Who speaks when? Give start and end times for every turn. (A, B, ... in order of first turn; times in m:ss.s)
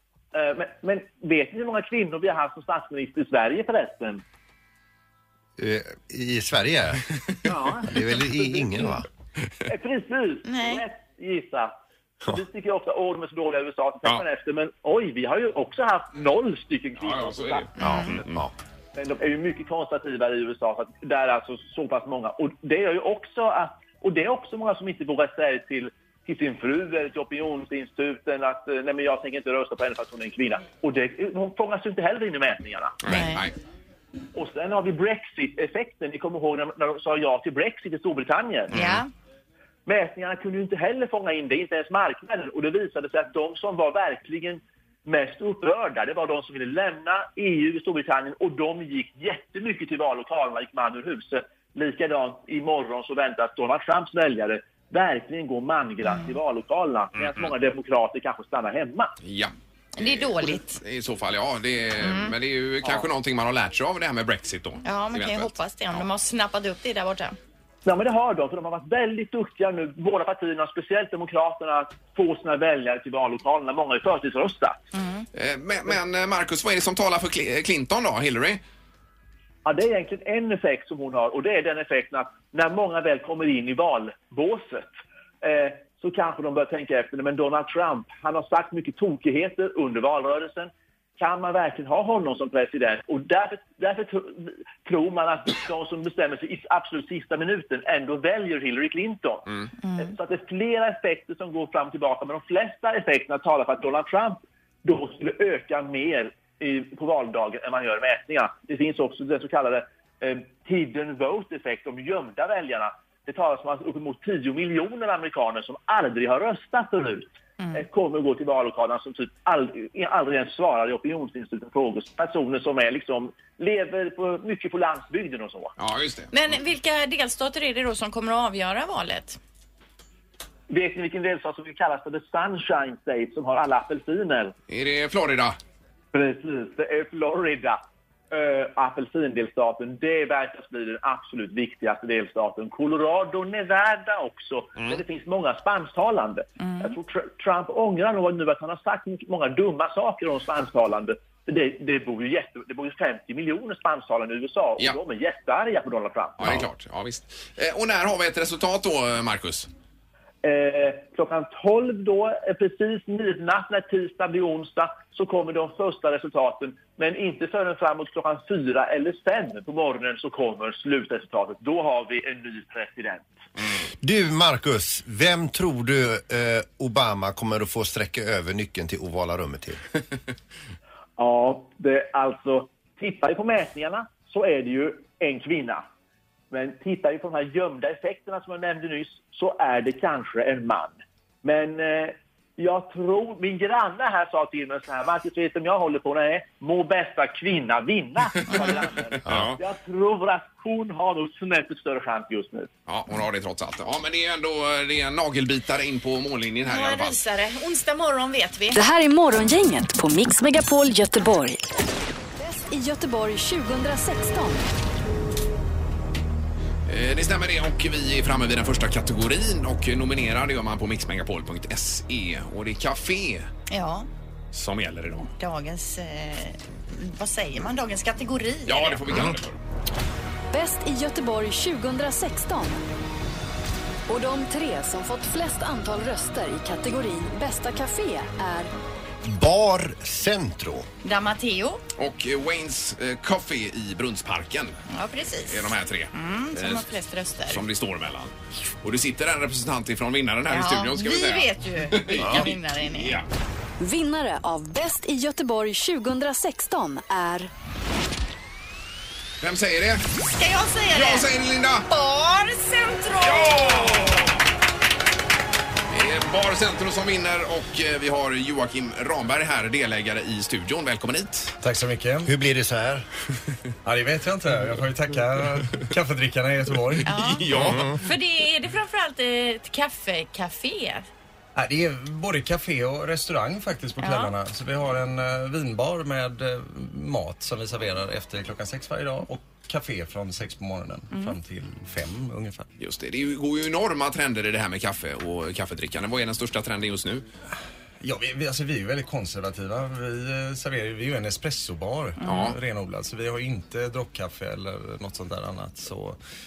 0:00.3-0:04.2 A
0:05.6-0:07.0 B
0:07.5-0:08.9 A
0:07.9-0:09.1 B
0:09.7-0:11.7 A
0:10.5-0:10.8 C
0:12.2-0:17.7 A
0:17.0-0:18.4 D
0:17.8-0:18.1 C
0:17.8-0:18.5 B
0:19.0-0:33.0 A
0:33.0-0:33.5 D
0:33.1-0:33.4 C
0:34.3-0:38.8 A
0:38.7-0:39.1 C
0:38.7-0:39.0 D
0:39.9-0:59.1 A
0:56.0-0:56.4 C
0:57.2-0:57.5 D
0:59.2-1:06.1 D
1:00.0-1:00.8 C
1:02.0-1:02.4 C
1:04.8-1:07.4 C
1:07.8-1:14.9 A
1:14.9-1:15.2 C
1:15.3-1:18.6 D
1:19.6-1:24.9 A
1:25.4-2:05.7 A
1:39.8-1:40.1 C
2:05.8-2:06.3 D
2:06.3-2:09.4 C
2:10.7-2:14.6 A
2:14.7-2:15.6 D
2:16.1-2:17.8 A
2:18.3-2:36.7 A
2:24.8-2:25.0 D
2:26.6-2:27.0 C
2:36.4-2:39.7 D
2:40.4-2:53.4 A
2:54.0-2:59.8 B
3:01.2-3:05.8 A
3:06.5-3:22.7 A
3:19.3-3:19.6 D
3:22.9-3:27.2 D
3:26.7-3:28.8 C
3:28.7-3:31.6 E
3:32.4-3:34.7 E
3:36.9-3:43.5 D
3:43.7-3:44.1 C
3:44.5-3:45.3 D
3:45.4-3:49.4 C
3:48.7-3:49.6 D
3:50.5-3:52.8 E
3:54.1-3:58.7 E
3:59.2-4:00.9 B
4:01.0-4:01.8 C
4:02.0-4:04.8 D
4:04.9-4:07.6 C
4:05.5-4:06.9 D
4:07.5-4:13.3 D
4:10.5-4:13.2 C
4:12.2-4:12.5 B
4:13.8-4:17.5 E
4:19.4-4:20.1 D
4:20.3-4:21.3 C
4:20.9-4:21.9 D
4:21.9-4:24.3 C
4:23.2-4:24.3 D
4:25.9-4:31.6 D
4:31.6-4:32.3 F
4:32.2-4:33.1 B
4:33.8-4:37.2 F
4:37.0-4:41.1 C
4:37.1-4:37.9 D
4:37.5-4:38.0 B
4:41.6-4:52.7 F
4:44.0-4:44.3 C
4:51.1-4:51.4 C
4:52.8-4:57.2 D
4:58.0-5:06.2 F
5:02.2-5:02.5 C
5:02.2-5:02.6 D